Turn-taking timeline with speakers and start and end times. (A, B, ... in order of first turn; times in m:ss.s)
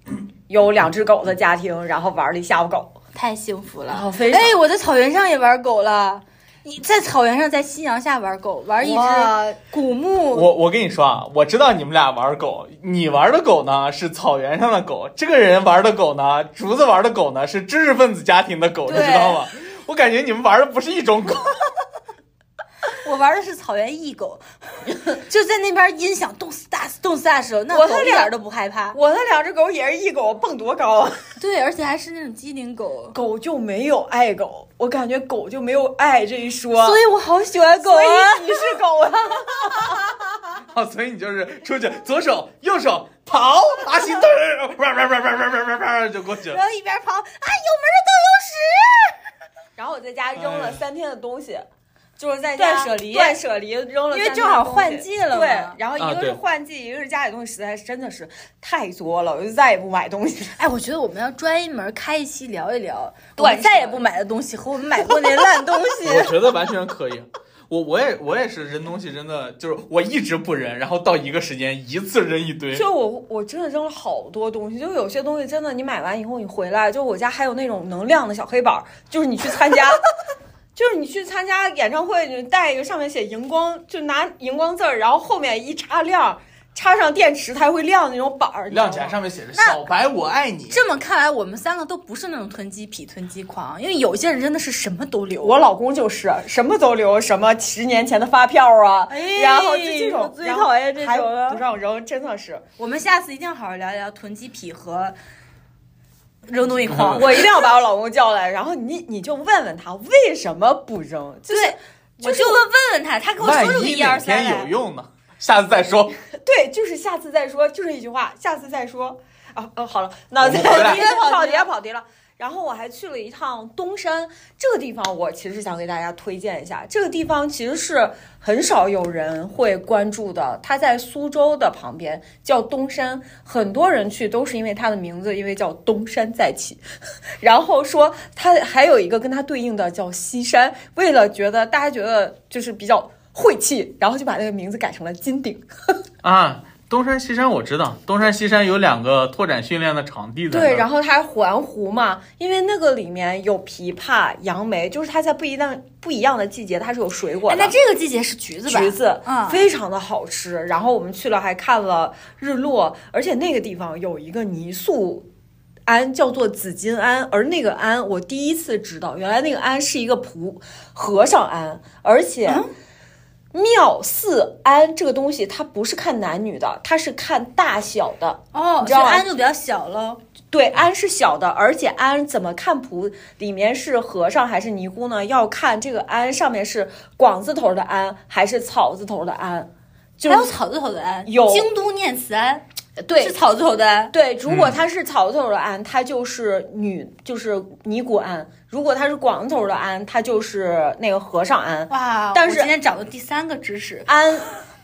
0:00.5-0:02.9 A
0:03.1-0:10.5 B
0:03.9-0:04.6 A
0:08.8-0:09.6 A
0:10.3-0:21.6 C
0:18.9-0:19.4 A
0:18.9-0:19.2 B
0:22.9-0:29.0 B
0:27.7-0:28.3 A
0:28.9-0:31.2 A
0:31.4-0:33.2 B
0:33.1-0:37.0 A
0:36.8-0:38.8 B
0:37.8-0:40.4 A
0:40.7-0:46.6 C
0:46.5-0:49.2 B
0:49.8-0:51.6 A
0:50.4-0:50.8 C
0:52.2-1:00.6 A
0:52.6-0:53.4 B
0:54.1-0:55.8 B
0:56.0-0:56.4 C
1:00.6-1:06.3 B
1:03.4-1:04.0 A
1:06.0-1:12.9 C
1:12.7-1:20.0 A
1:20.8-1:29.2 A
1:28.7-1:30.8 C
1:29.5-1:29.8 B
1:30.7-1:35.6 B
1:35.4-1:42.6 A
1:39.1-1:41.6 B
1:42.8-1:45.2 B
1:46.5-1:47.5 B
1:46.9-1:47.2 C
1:47.0-1:52.6 A
1:51.5-1:54.7 B
1:53.4-1:56.1 C
1:56.4-2:16.8 A
2:00.4-2:01.0 C
2:00.5-2:01.7 B
2:17.4-2:26.0 A
2:26.2-2:30.9 C
2:30.5-2:37.7 A
2:37.5-2:39.6 B
2:38.7-2:45.2 A
2:45.9-2:52.6 A
2:53.5-2:59.3 A
2:58.5-3:00.2 B
3:00.5-3:10.5 A
3:10.3-3:12.6 B
3:11.2-3:11.7 A
3:13.0-3:13.4 A
3:13.2-3:14.1 B
3:14.1-3:22.7 A
3:14.5-3:14.7 C
3:21.9-3:24.1 B
3:24.1-3:24.5 A